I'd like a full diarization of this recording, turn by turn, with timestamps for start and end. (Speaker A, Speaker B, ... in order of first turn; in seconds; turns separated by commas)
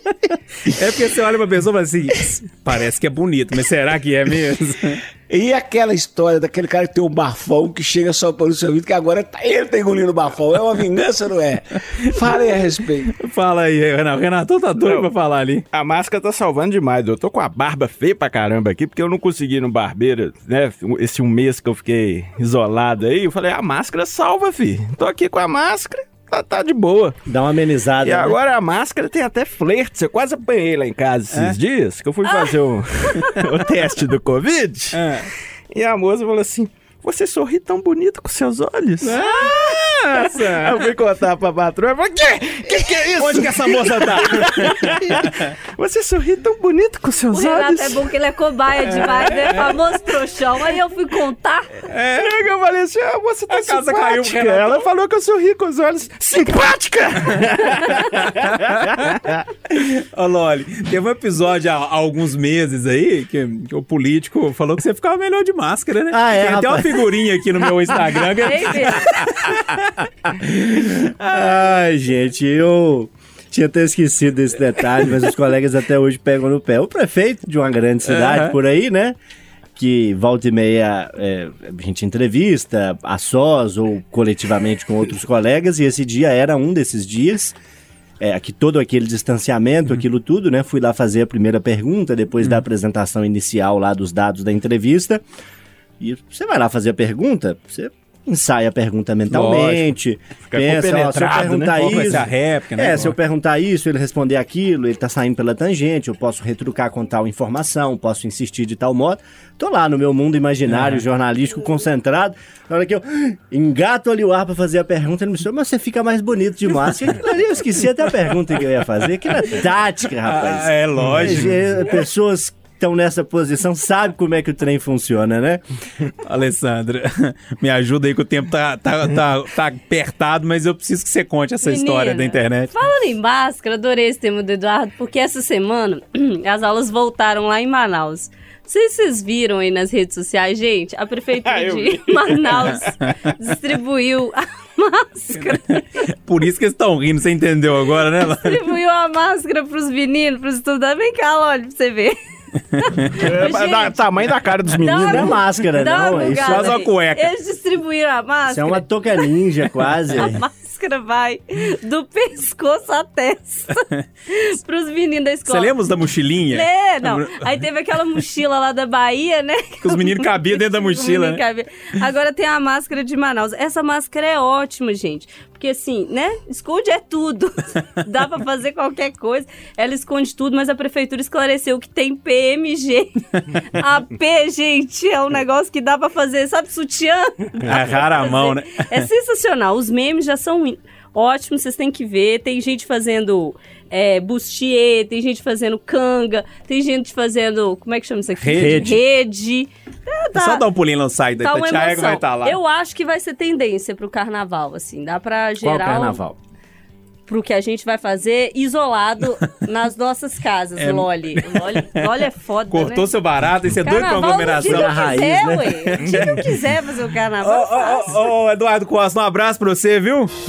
Speaker A: 0.7-5.0, Speaker B: 5.3-13.2, Speaker A: 13.1-15.7, Speaker C: 14.8-15.1, Speaker C: 15.7-27.2, Speaker D: 27.3-28.4, Speaker C: 28.0-39.2, Speaker E: 32.3-33.4, Speaker A: 34.9-35.3, Speaker A: 39.0-40.9, Speaker C: 40.3-48.0, Speaker A: 43.1-45.5, Speaker E: 47.3-51.8, Speaker A: 48.9-49.7, Speaker C: 49.2-49.5, Speaker A: 51.9-52.4, Speaker C: 52.2-59.4, Speaker A: 53.5-54.9, Speaker A: 57.4-59.1, Speaker A: 59.7-69.8, Speaker D: 66.1-67.1, Speaker E: 68.4-69.3, Speaker D: 70.4-79.2, Speaker A: 78.1-78.5, Speaker D: 79.8-87.6, Speaker D: 88.2-95.2, Speaker D: 96.0-125.6, Speaker A: 99.3-99.9, Speaker C: 100.5-102.3, Speaker A: 101.2-103.2, Speaker A: 110.7-111.0, Speaker A: 120.3-121.7, Speaker A: 126.2-132.7, Speaker E: 131.6-146.0, Speaker C: 141.5-142.9, Speaker A: 145.4-148.6, Speaker E: 148.2-152.2, Speaker E: 152.7-154.0, Speaker C: 153.2-155.4, Speaker E: 154.8-159.3, Speaker D: 154.8-156.8, Speaker A: 156.1-157.3, Speaker D: 158.5-160.4, Speaker E: 160.1-165.8, Speaker A: 165.5-167.6, Speaker E: 166.5-200.7, Speaker A: 169.8-171.4, Speaker A: 187.7-189.1, Speaker A: 198.4-198.9, Speaker D: 198.5-199.0, Speaker A: 200.4-202.6, Speaker E: 201.4-206.2, Speaker D: 205.6-206.4, Speaker E: 207.3-213.2, Speaker A: 210.8-215.1, Speaker E: 213.8-218.3, Speaker D: 214.6-215.9, Speaker C: 216.0-216.4, Speaker A: 216.0-216.5, Speaker A: 217.4-220.3